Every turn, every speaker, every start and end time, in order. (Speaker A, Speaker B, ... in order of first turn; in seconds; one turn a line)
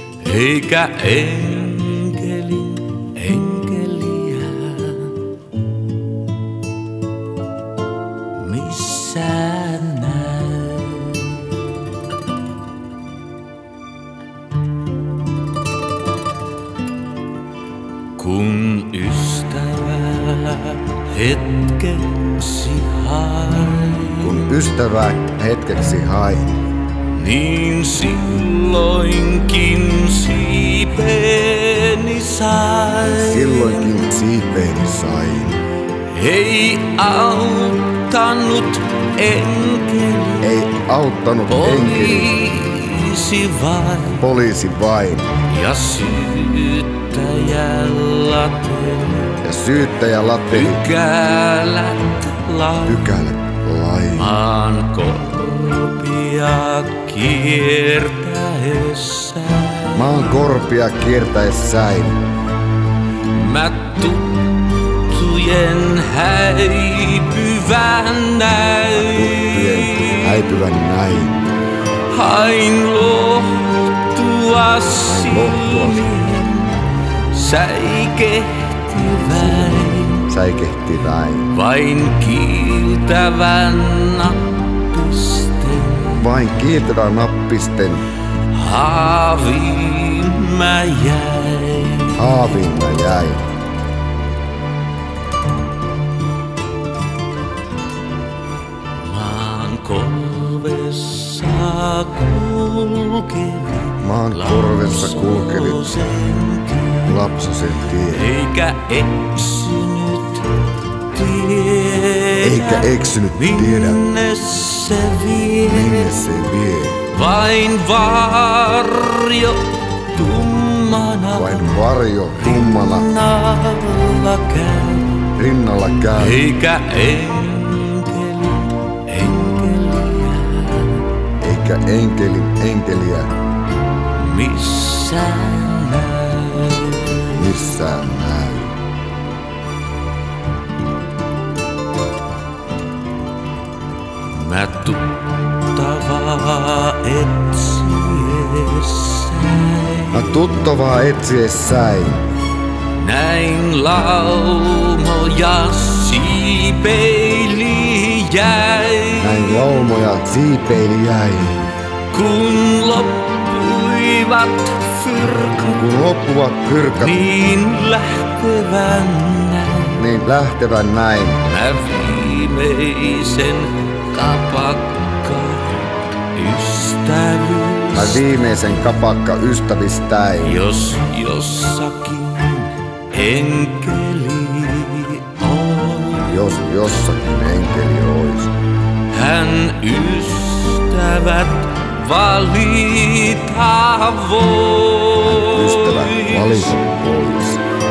Speaker A: 0.2-5.3
Speaker A: 8.3-11.6
Speaker A: 18.2-24.5
Speaker B: 24.2-26.6
Speaker A: 27.1-34.0
Speaker B: 33.0-35.6
Speaker A: 36.0-40.6
Speaker B: 40.4-42.5
Speaker A: 41.5-44.2
Speaker B: 44.2-45.3
Speaker A: 45.4-49.4
Speaker B: 49.4-50.9
Speaker A: 50.5-53.2
Speaker B: 52.9-54.3
Speaker A: 54.1-60.4
Speaker B: 59.9-62.2
Speaker A: 63.3-70.5
Speaker B: 69.1-71.5
Speaker A: 72.1-80.3
Speaker B: 75.0-76.1
Speaker B: 80.3-81.5
Speaker A: 81.5-86.3
Speaker B: 86.1-88.1
Speaker A: 88.5-92.6
Speaker B: 92.1-93.4
Speaker A: 99.0-107.2
Speaker B: 104.0-105.9
Speaker B: 107.0-108.3
Speaker A: 108.0-116.2
Speaker B: 112.4-114.0
Speaker B: 115.6-117.0
Speaker A: 117.1-121.8
Speaker B: 121.3-123.1
Speaker A: 122.4-125.3
Speaker B: 125.4-126.4
Speaker A: 126.2-131.1
Speaker B: 131.4-133.3
Speaker A: 134.2-137.6
Speaker B: 137.3-138.8
Speaker A: 144.3-150.3
Speaker B: 150.1-152.2
Speaker A: 152.9-159.7
Speaker B: 159.2-161.7
Speaker A: 162.1-165.9
Speaker B: 165.8-167.3
Speaker A: 166.9-170.0
Speaker B: 170.0-171.4
Speaker A: 171.4-178.3
Speaker B: 177.9-180.7
Speaker A: 180.4-186.4
Speaker B: 186.3-188.5
Speaker A: 189.1-196.8
Speaker B: 195.2-197.6